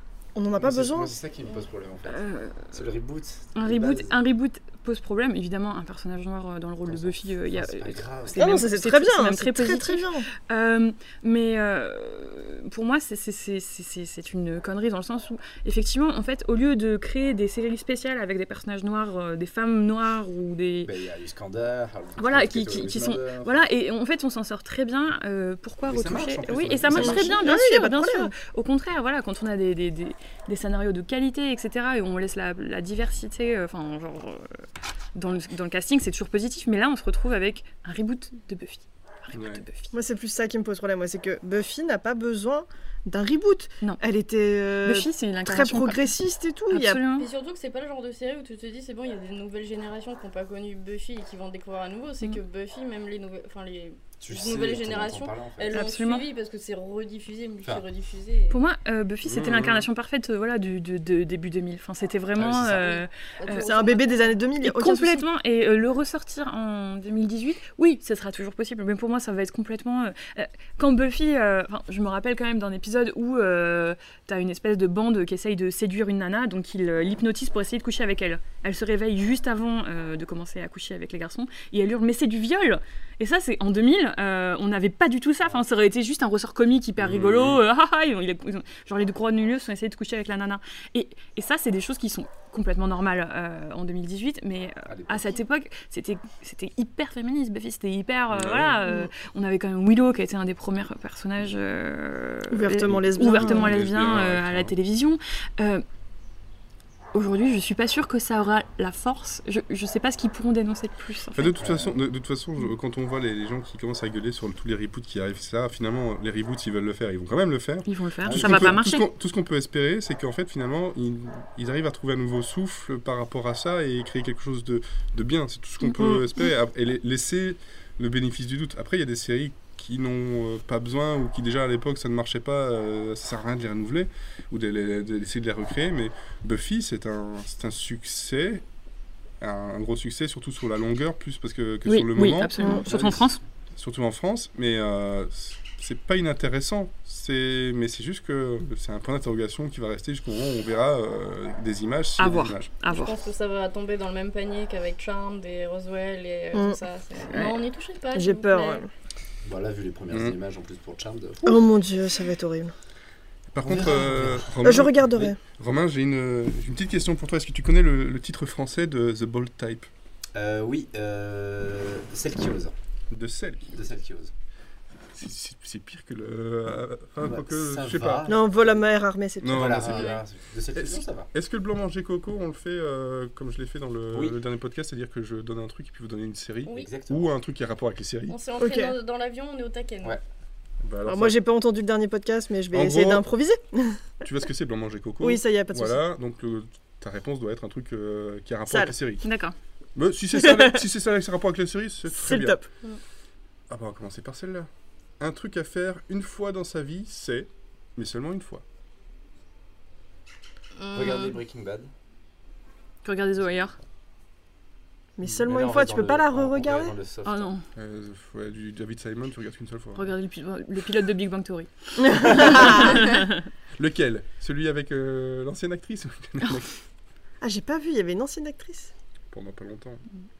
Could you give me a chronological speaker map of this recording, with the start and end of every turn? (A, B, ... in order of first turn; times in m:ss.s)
0:00.3-0:01.1 A
0:00.6-0:04.2 B
0:02.1-0:02.7 C
0:03.5-0:20.9 C
0:06.8-0:08.7 B
0:08.4-0:10.3 A
0:20.8-0:23.6 B
0:22.2-0:34.6 C
0:25.9-0:27.5 B
0:26.9-0:28.3 A
0:35.1-0:39.9 C
0:39.3-0:39.6 D
0:39.9-0:47.0 A
0:44.8-0:46.1 C
0:46.7-0:47.3 C
0:47.1-0:58.6 E
0:54.2-0:55.8 B
0:55.7-0:56.3 C
0:58.5-1:03.7 C
0:59.2-0:59.9 D
1:02.4-1:03.0 B
1:02.7-1:04.3 E
1:03.6-1:05.2 A
1:04.6-1:45.8 C
1:27.0-1:27.6 D
1:34.8-1:35.4 B
1:38.3-1:38.8 D
1:38.8-1:39.1 A
1:42.5-1:43.7 A
1:42.8-1:44.7 D
1:47.1-1:51.6 C
1:51.3-2:18.6 D
1:51.6-1:52.0 B
1:57.9-1:59.0 C
1:58.2-1:58.8 B
2:05.8-2:06.3 C
2:19.4-2:22.5 D
2:21.8-2:23.4 C
2:22.6-2:22.8 A
2:22.6-2:23.4 B
2:23.7-2:32.7 D
2:32.2-2:33.2 C
2:32.9-2:38.8 E
2:36.5-2:36.8 A
2:37.3-2:37.6 C
2:38.1-2:38.9 A
2:39.4-2:41.7 B
2:41.4-2:42.7 A
2:43.5-2:49.9 D
2:43.6-2:44.6 B
2:44.6-2:45.4 A
2:50.3-2:52.7 B
2:53.1-2:53.7 D
2:53.7-2:54.3 B
2:55.1-2:58.3 D
2:57.2-2:58.6 B
2:58.3-2:59.8 A
2:59.4-3:00.2 D
2:59.4-3:01.3 B
2:59.9-3:00.2 E
3:00.7-3:08.3 D
3:04.1-3:04.4 B
3:06.6-3:07.3 B
3:08.3-3:10.2 E
3:08.6-3:08.9 A
3:10.8-3:11.4 D
3:11.0-3:14.0 A
3:12.7-3:13.3 D
3:14.2-3:19.3 D
3:15.2-3:16.0 A
3:18.7-3:18.9 A
3:19.2-3:19.5 C
3:19.9-3:22.6 D
3:20.4-3:20.8 A
3:22.1-3:22.6 A
3:23.7-3:28.6 D
3:30.8-3:31.4 E
3:30.9-3:31.9 B
3:33.0-3:33.7 C
3:33.4-3:33.8 B
3:35.2-3:36.9 A
3:35.2-3:35.5 D
3:35.4-3:37.5 B
3:37.2-3:37.6 C
3:37.8-3:40.1 D
3:40.0-3:43.4 C
3:42.0-3:43.0 A
3:43.8-3:46.8 D
3:47.4-3:48.9 A
3:49.3-3:50.0 D